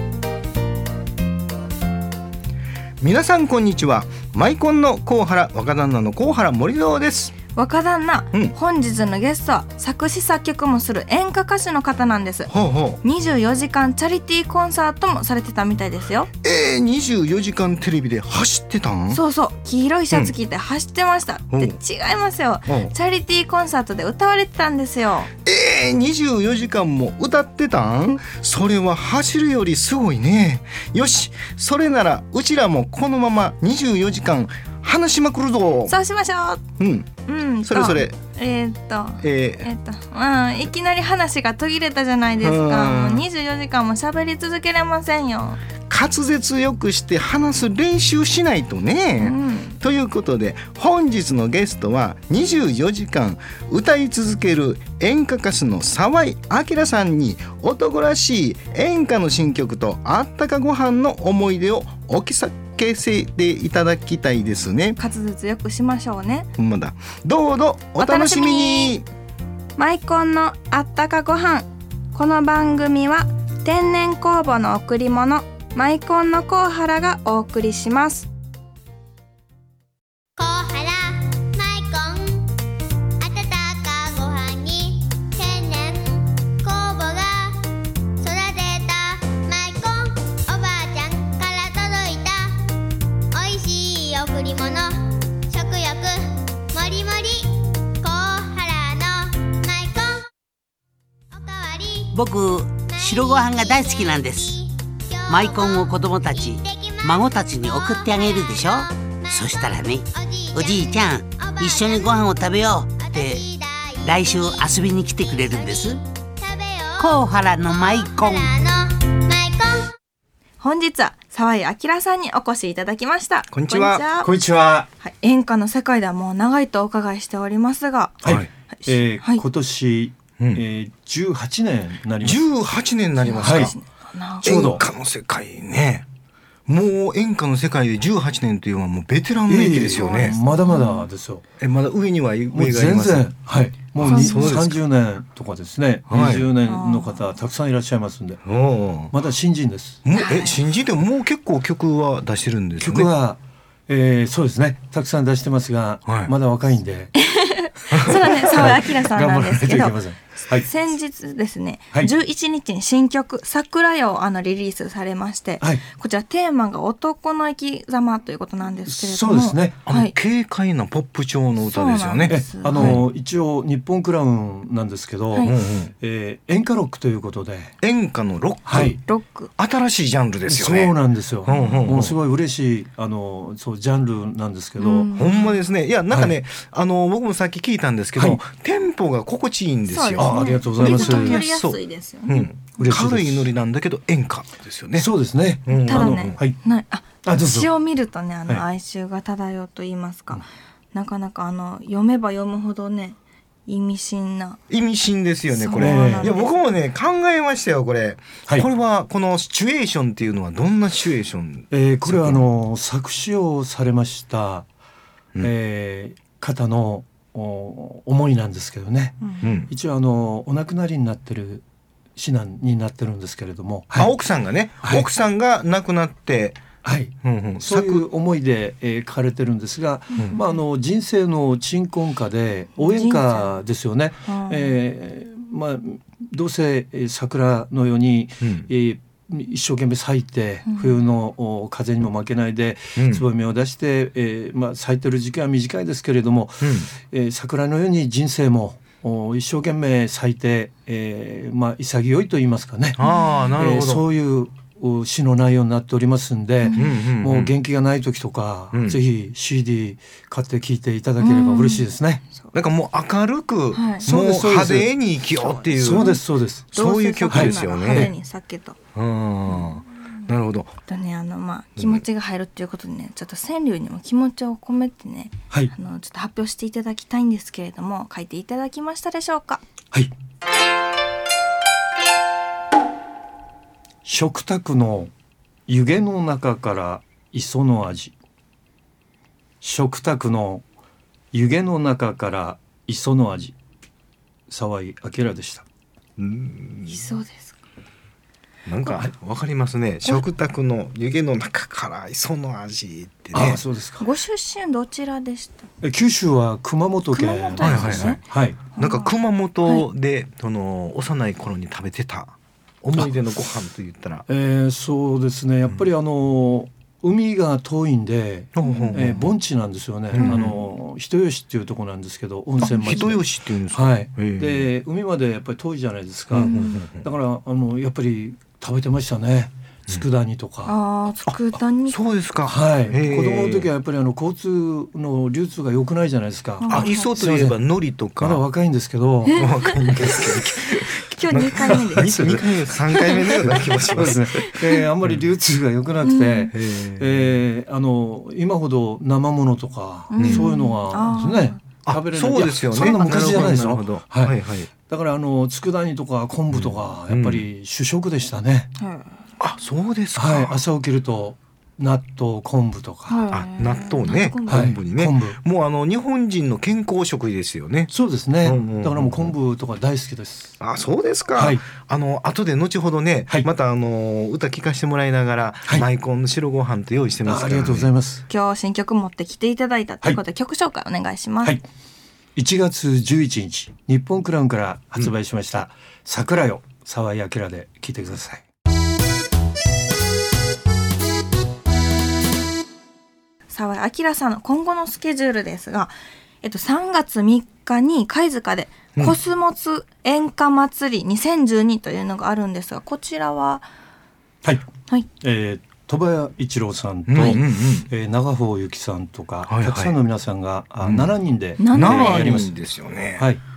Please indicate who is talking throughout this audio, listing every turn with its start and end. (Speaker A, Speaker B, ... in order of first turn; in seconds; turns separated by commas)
Speaker A: 3.0-7.3, Speaker B: 7.5-12.5, Speaker A: 12.5-13.0, Speaker B: 13.0-16.3, Speaker A: 16.4-19.2, Speaker B: 19.1-25.3, Speaker A: 21.5-21.8, Speaker A: 22.7-22.9, Speaker A: 25.4-35.9, Speaker B: 35.9-36.6, Speaker A: 36.8-37.1, Speaker B: 37.2-45.6, Speaker A: 37.6-38.1, Speaker A: 39.2-39.7, Speaker A: 42.4-43.2, Speaker A: 45.9-65.0, Speaker B: 49.2-49.8, Speaker B: 65.0-66.5, Speaker A: 66.6-69.0, Speaker B: 68.0-69.0, Speaker B: 69.8-78.3, Speaker C: 80.4-82.5, Speaker C: 83.2-87.6, Speaker C: 88.2-92.5, Speaker C: 93.3-100.3, Speaker C: 101.3-102.2, Speaker D: 102.1-104.5, Speaker C: 102.8-119.9, Speaker D: 105.3-113.4, Speaker D: 114.0-116.0, Speaker D: 117.0-118.5, Speaker B: 120.6-124.3, Speaker A: 123.5-124.0, Speaker E: 124.2-124.9, Speaker B: 125.0-129.4, Speaker E: 128.2-132.4, Speaker A: 132.2-133.7, Speaker B: 133.2-134.8, Speaker E: 133.4-133.7, Speaker A: 134.4-136.1, Speaker E: 134.4-134.8, Speaker A: 136.7-140.4, Speaker E: 139.5-141.4, Speaker B: 139.9-141.1, Speaker A: 141.6-143.3, Speaker E: 142.5-148.4, Speaker A: 144.0-144.8, Speaker B: 144.0-144.6, Speaker A: 146.1-146.4, Speaker B: 146.6-147.3, Speaker A: 148.4-149.1, Speaker E: 149.1-150.0, Speaker A: 150.0-153.1, Speaker B: 150.1-150.6, Speaker E: 152.8-157.1, Speaker A: 156.1-156.3, Speaker B: 157.2-160.0, Speaker A: 157.9-158.4, Speaker E: 158.1-160.7, Speaker B: 160.6-170.1, Speaker E: 165.6-165.8, Speaker E: 168.9-169.8, Speaker A: 169.8-173.0, Speaker B: 171.6-173.0, Speaker E: 172.3-177.8, Speaker A: 175.4-175.9, Speaker A: 177.8-179.0, Speaker E: 178.6-179.0, Speaker B: 179.0-179.5, Speaker A: 179.6-182.2, Speaker E: 180.5-185.1, Speaker B: 184.8-185.6, Speaker A: 185.1-195.1, Speaker E: 186.1-186.4, Speaker E: 188.2-188.4, Speaker B: 189.9-192.9, Speaker E: 190.2-191.4, Speaker E: 192.8-193.5, Speaker E: 195.0-196.6, Speaker A: 195.7-196.4, Speaker B: 195.8-204.6, Speaker E: 197.2-197.7, Speaker A: 204.7-212.4, Speaker B: 205.5-206.5, Speaker E: 205.7-206.3, Speaker E: 211.7-214.7, Speaker E: 215.4-221.6, Speaker A: 219.4-219.7, Speaker E: 222.2-224.1, Speaker A: 223.9-226.7, Speaker E: 226.8-253.0, Speaker A: 227.2-228.1, Speaker B: 230.2-230.4, Speaker B: 232.8-233.6, Speaker B: 234.3-234.7, Speaker A: 238.4-238.7, Speaker B: 240.7-240.9, Speaker A: 243.0-243.2, Speaker A: 246.6-246.9, Speaker A: 253.0-254.1, Speaker B: 253.1-253.4, Speaker E: 253.6-262.2, Speaker A: 256.7-257.6, Speaker A: 258.7-259.0, Speaker B: 261.2-262.5, Speaker A: 262.5-266.2, Speaker B: 263.7-264.1, Speaker E: 264.0-265.2, Speaker B: 265.4-266.2, Speaker E: 265.8-266.7, Speaker A: 266.7-268.1, Speaker B: 266.7-268.8, Speaker E: 267.3-268.1, Speaker A: 268.9-270.8, Speaker B: 270.9-279.6, Speaker A: 271.8-272.0, Speaker E: 284.0-285.1, Speaker E: 285.7-288.1, Speaker E: 289.6-290.6, Speaker E: 291.3-293.5, Speaker E: 294.5-295.6, Speaker A: 296.2-297.0, Speaker B: 296.9-297.6, Speaker A: 298.6-303.6, Speaker E: 303.3-304.1, Speaker B: 304.0-305.7, Speaker E: 305.8-308.6, Speaker B: 307.1-308.2, Speaker A: 307.6-308.2, Speaker B: 308.8-309.1, Speaker A: 308.8-314.2, Speaker E: 314.3-330.7, Speaker A: 318.5-319.3, Speaker B: 318.6-319.0, Speaker A: 320.1-320.6, Speaker A: 322.6-324.7, Speaker B: 322.7-322.9, Speaker A: 326.3-327.1, Speaker B: 326.4-326.8, Speaker B: 330.6-331.9, Speaker A: 331.3-333.7, Speaker E: 332.4-337.6, Speaker B: 336.6-337.1, Speaker A: 336.7-338.4, Speaker E: 338.2-339.5, Speaker B: 339.3-340.4, Speaker A: 339.3-345.1, Speaker B: 341.1-343.8, Speaker E: 341.6-342.4, Speaker E: 343.1-358.7, Speaker B: 346.0-346.5, Speaker A: 346.5-347.4, Speaker B: 350.1-351.6, Speaker A: 350.2-350.5, Speaker A: 351.8-354.7, Speaker B: 352.8-353.5, Speaker A: 356.5-357.5, Speaker B: 358.8-359.2, Speaker A: 359.4-360.6, Speaker E: 360.1-363.2, Speaker B: 363.1-364.7, Speaker A: 363.3-367.9, Speaker E: 364.5-365.4, Speaker E: 367.9-370.6, Speaker A: 368.4-369.3, Speaker A: 370.6-377.9, Speaker E: 371.4-371.6, Speaker E: 377.2-378.2, Speaker B: 378.3-381.6, Speaker E: 382.4-388.4, Speaker B: 393.5-403.6, Speaker E: 405.2-412.5, Speaker A: 407.1-407.9, Speaker A: 409.5-409.9, Speaker A: 410.8-411.1, Speaker B: 411.6-412.4, Speaker A: 411.7-413.3, Speaker E: 413.2-413.4